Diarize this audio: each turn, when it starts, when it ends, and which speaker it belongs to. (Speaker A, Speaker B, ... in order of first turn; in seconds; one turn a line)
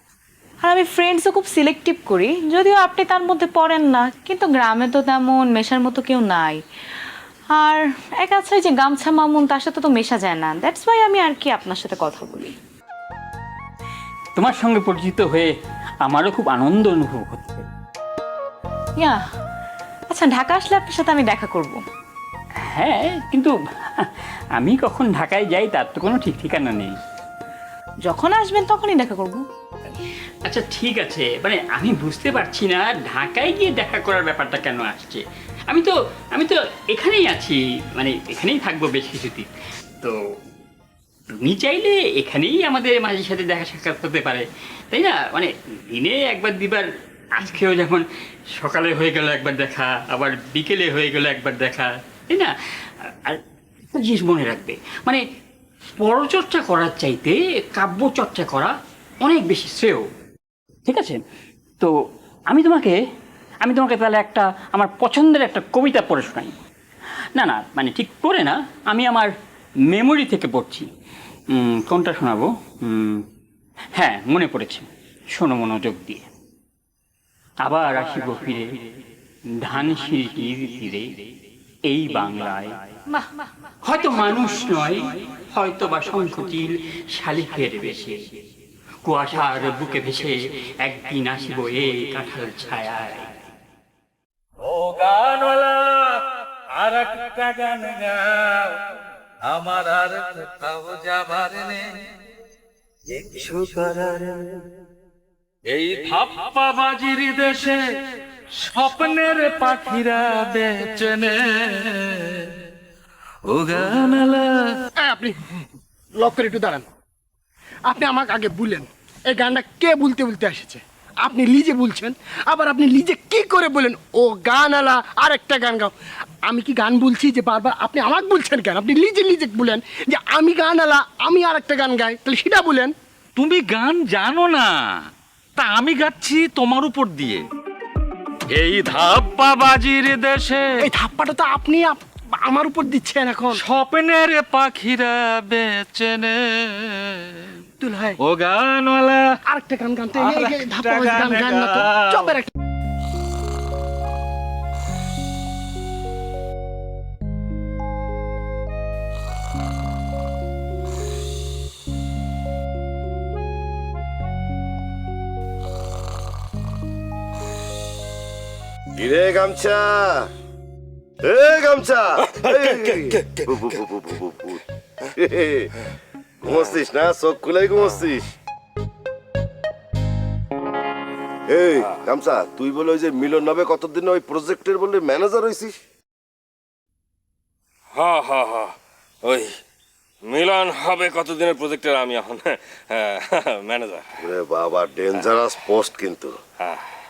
Speaker A: 0.6-6.6
Speaker A: 7.5-12.5
Speaker B: 14.3-17.6
Speaker A: 20.1-21.8
Speaker B: 22.7-26.9
Speaker A: 28.0-29.4
Speaker B: 30.4-39.5
Speaker B: 41.4-48.0
Speaker B: 48.5-53.4
Speaker B: 53.9-55.2
Speaker B: 56.0-60.1
Speaker B: 60.9-61.2
Speaker B: 62.5-63.0
Speaker B: 63.6-66.5
Speaker B: 67.3-69.3
Speaker B: 69.9-70.9
Speaker B: 71.5-73.2
Speaker B: 73.9-76.3
Speaker B: 77.6-78.9
Speaker B: 79.6-81.3
Speaker B: 81.8-82.8
Speaker B: 83.8-88.4
Speaker B: 89.0-93.3
Speaker C: 94.7-96.1
Speaker C: 96.8-98.7
Speaker C: 99.4-101.8
Speaker C: 103.1-104.5
Speaker C: 105.7-107.8
Speaker C: 108.6-112.1
Speaker C: 113.5-114.5
Speaker D: 115.0-115.4
Speaker D: 116.2-116.8
Speaker D: 117.9-125.9
Speaker D: 126.5-132.9
Speaker C: 133.4-134.7
Speaker C: 135.6-137.4
Speaker C: 138.5-140.7
Speaker D: 140.8-143.6
Speaker C: 143.5-146.4
Speaker D: 147.8-148.2
Speaker C: 148.2-149.2
Speaker D: 149.4-152.5
Speaker C: 150.2-152.3
Speaker E: 169.0-170.3
Speaker E: 171.2-174.6
Speaker F: 172.3-173.7
Speaker E: 175.2-175.7
Speaker E: 176.4-178.2
Speaker E: 181.5-185.8
Speaker F: 187.9-189.5
Speaker F: 190.2-194.1
Speaker E: 194.2-196.3